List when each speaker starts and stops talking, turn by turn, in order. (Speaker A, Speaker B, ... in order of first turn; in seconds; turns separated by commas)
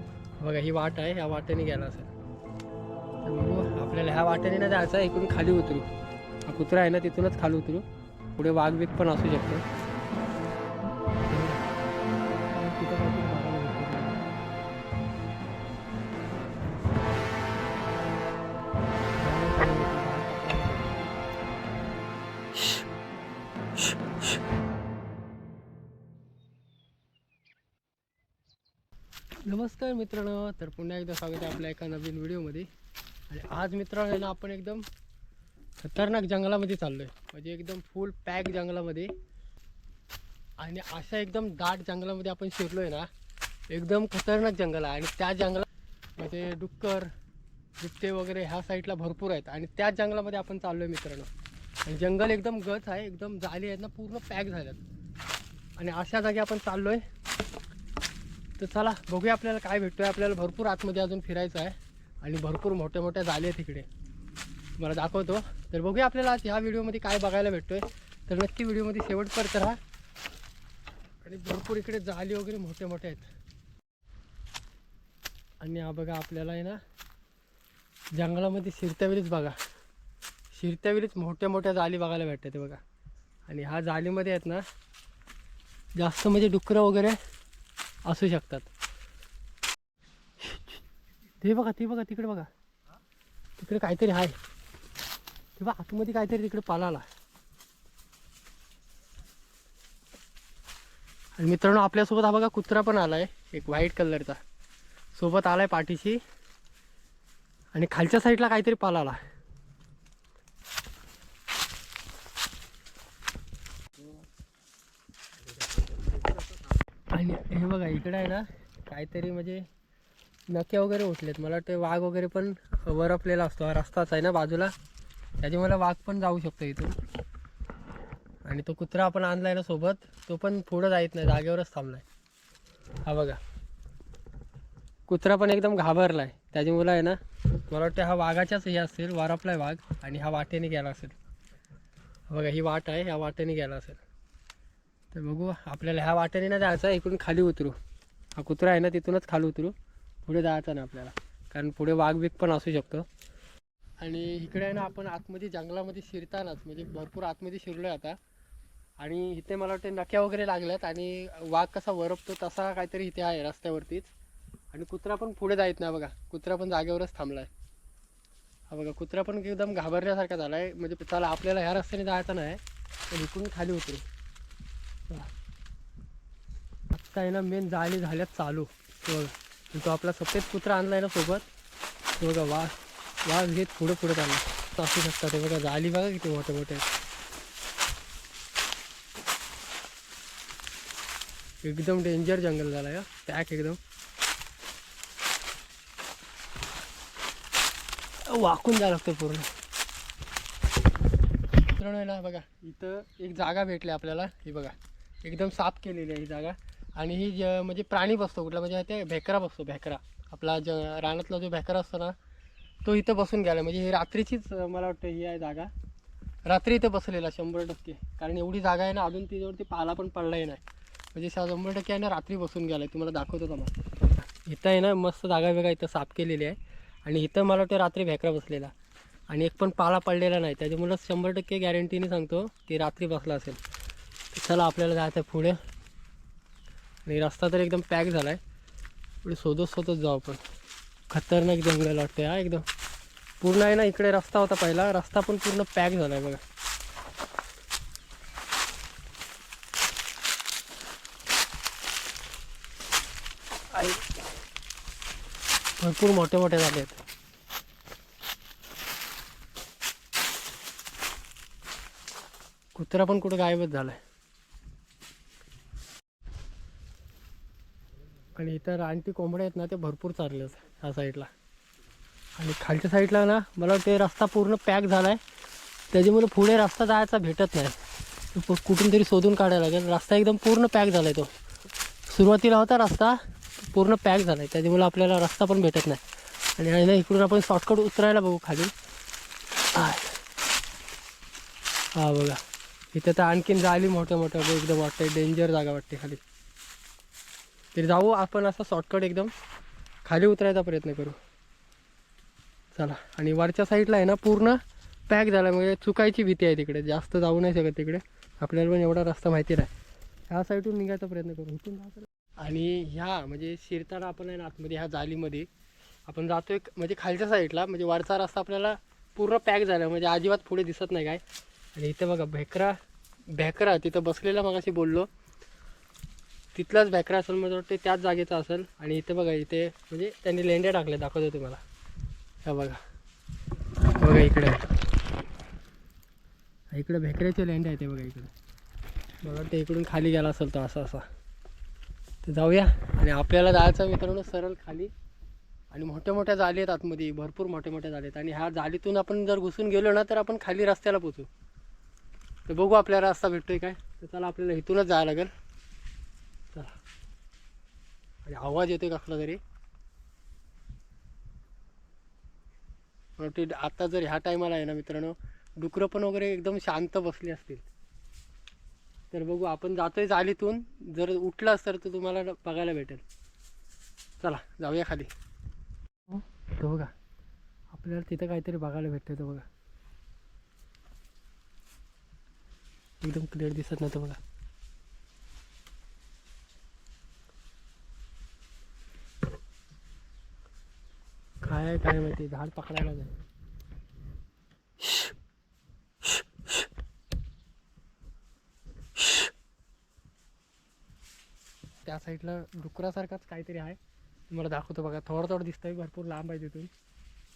Speaker A: 0.4-2.1, Speaker A: 3.2-5.9, Speaker A: 6.5-9.6, Speaker A: 11.2-11.7, Speaker A: 12.5-14.3, Speaker A: 19.2-21.1, Speaker A: 29.4-32.7, Speaker A: 33.3-34.8, Speaker A: 35.8-39.1, Speaker A: 40.6-43.1, Speaker A: 43.7-47.1, Speaker A: 47.8-51.3, Speaker A: 51.8-54.8, Speaker A: 55.8-57.0, Speaker A: 58.6-63.9, Speaker A: 64.8-69.8, Speaker A: 71.2-73.3, Speaker A: 75.6-76.8, Speaker A: 78.1-79.6, Speaker A: 80.5-82.8, Speaker A: 83.5-84.6, Speaker A: 86.0-87.2, Speaker A: 88.0-88.7, Speaker A: 91.4-92.5, Speaker A: 93.6-94.3, Speaker A: 95.6-97.1, Speaker A: 101.4-104.4, Speaker A: 105.1-106.2, Speaker A: 107.7-109.2, Speaker A: 117.1-119.7, Speaker A: 120.5-124.7, Speaker A: 125.4-127.0, Speaker A: 128.4-132.0, Speaker A: 133.1-133.4, Speaker A: 135.1-141.2, Speaker A: 142.3-144.0, Speaker A: 145.1-147.8, Speaker A: 148.3-153.1, Speaker A: 154.0-158.2, Speaker A: 159.0-164.1, Speaker A: 164.7-167.5, Speaker A: 168.7-174.0, Speaker A: 176.9-181.4, Speaker A: 182.2-182.7, Speaker A: 183.2-186.9, Speaker A: 191.6-193.8, Speaker A: 198.2-199.5, Speaker A: 201.7-212.2, Speaker A: 212.8-215.7, Speaker A: 216.4-220.6, Speaker A: 221.1-223.7, Speaker A: 224.3-228.7, Speaker A: 229.3-233.6, Speaker A: 234.3-235.6, Speaker A: 237.1-238.4, Speaker A: 239.2-240.4, Speaker A: 241.1-242.7, Speaker A: 243.4-246.4, Speaker A: 253.7-254.0, Speaker A: 255.8-257.0, Speaker A: 262.7-264.0, Speaker A: 268.3-271.3, Speaker A: 272.4-275.2, Speaker A: 275.9-277.8, Speaker A: 278.3-281.3, Speaker A: 282.1-286.0, Speaker A: 286.6-288.7, Speaker A: 289.7-290.1, Speaker A: 291.9-292.4, Speaker A: 292.9-296.2, Speaker A: 297.7-299.3, Speaker A: 300.0-301.2, Speaker A: 302.7-309.7, Speaker A: 310.3-315.5, Speaker A: 316.1-321.2, Speaker A: 321.8-322.8, Speaker A: 323.3-325.1, Speaker A: 326.5-331.6, Speaker A: 332.4-332.8, Speaker A: 334.0-334.6, Speaker A: 336.7-338.3, Speaker A: 339.2-341.1, Speaker A: 342.2-344.9, Speaker A: 345.7-351.3, Speaker A: 352.5-355.3, Speaker A: 356.5-356.8, Speaker A: 358.2-359.4, Speaker A: 363.2-367.7, Speaker A: 369.1-373.0, Speaker A: 374.2-375.1, Speaker A: 376.1-376.9, Speaker A: 377.7-379.5, Speaker A: 383.0-384.2, Speaker A: 391.4-393.1, Speaker A: 401.9-403.8, Speaker A: 404.3-406.7